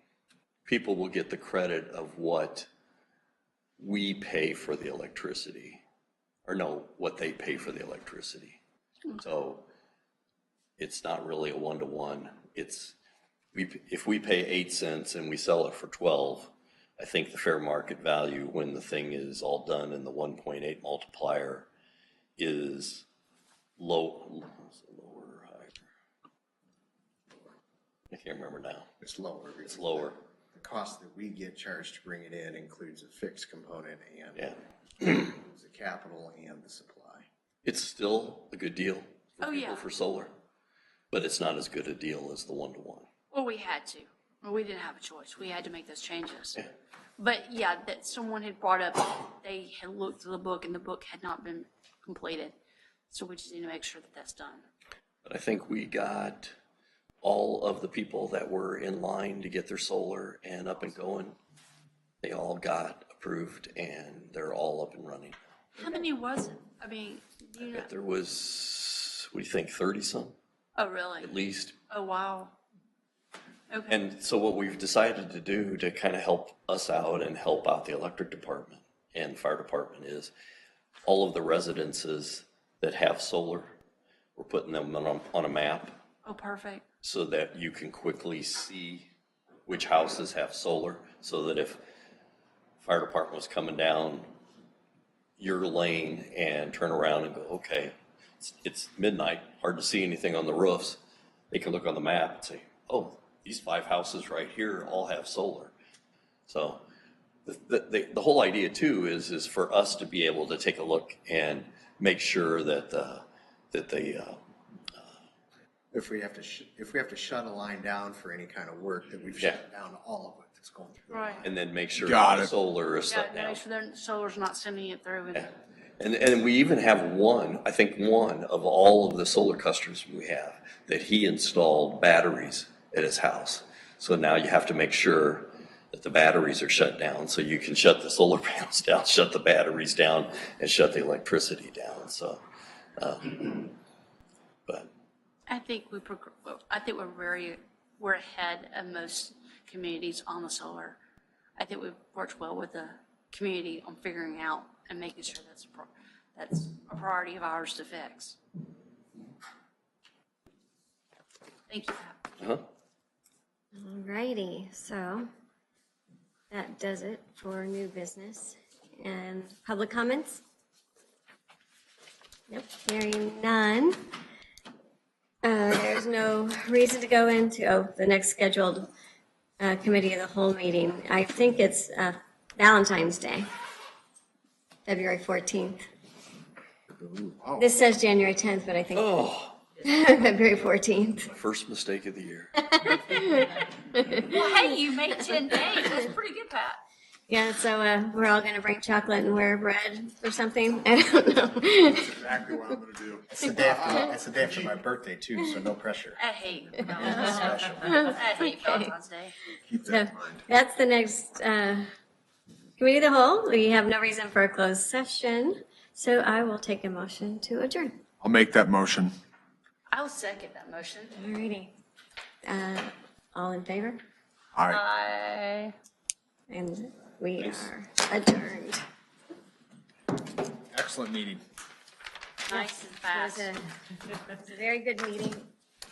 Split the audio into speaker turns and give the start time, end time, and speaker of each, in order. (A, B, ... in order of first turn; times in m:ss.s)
0:00.7-0:02.7 A
0:03.8-0:05.8 A
0:06.5-0:08.6 A
0:09.2-0:09.7 A
0:10.8-0:13.0 A
0:13.5-0:21.7 A
0:22.4-0:23.1 A
0:23.8-0:25.9 A
0:28.1-0:28.9 A
0:29.0-0:34.4 B
0:29.7-0:30.2 A
0:35.0-0:37.3 B
0:37.6-0:40.3 A
0:39.4-0:39.9 C
0:41.1-0:43.1 A
0:43.3-0:46.6 C
0:47.2-0:52.6 C
0:53.1-0:54.6 C
0:55.2-0:56.5 A
0:57.2-1:01.4 A
1:02.2-1:05.4 A
1:05.8-1:07.9 C
1:07.6-1:10.4 A
1:10.8-1:11.3 C
1:11.2-1:11.8 A
1:11.9-1:12.6 C
1:13.7-1:14.0 C
1:13.9-1:20.3 A
1:21.0-1:23.7 A
1:24.4-1:26.0 A
1:26.2-1:26.8 C
1:27.0-1:29.1 A
1:29.7-1:31.8 A
1:32.8-1:34.3 A
1:35.4-1:41.0 A
1:41.5-1:45.7 A
1:46.5-1:46.8 A
1:47.5-1:54.4 A
1:55.9-2:01.5 B
2:01.1-2:01.5 C
2:01.4-2:03.6 A
2:02.0-2:02.5 D
2:03.1-2:05.5 C
2:05.4-2:22.4 A
2:23.0-2:23.7 A
2:25.5-2:31.0 C
2:31.6-2:38.4 C
2:41.7-2:42.2 C
2:42.4-2:42.6 A
2:43.7-2:45.3 E
2:46.5-2:50.4 E
2:52.5-2:54.0 E
2:55.4-2:58.9 E
2:59.6-3:03.5 E
3:04.9-3:05.9 E
3:07.4-3:07.7 D
3:07.6-3:09.2 E
3:09.0-3:09.7 A
3:09.8-3:11.3 E
3:11.4-3:12.5 A
3:12.6-3:14.6 E
3:14.2-3:16.8 C
3:17.3-3:22.1 E
3:22.0-3:24.7 D
3:23.3-3:26.2 B
3:26.2-3:29.4 C
3:26.9-3:28.0 B
3:27.0-3:28.9 E
3:29.7-3:30.4 D
3:29.8-3:31.9 E
3:32.8-3:37.9 E
3:38.2-3:39.2 D
3:39.9-3:41.1 C
3:41.2-3:41.7 E
3:42.4-3:44.0 E
3:44.6-3:44.8 D
3:44.7-3:45.7 C
3:46.5-3:48.8 E
3:47.4-3:47.7 A
3:50.7-3:51.4 D
3:52.5-3:53.5 C
3:52.5-3:53.6 E
3:54.3-3:55.5 E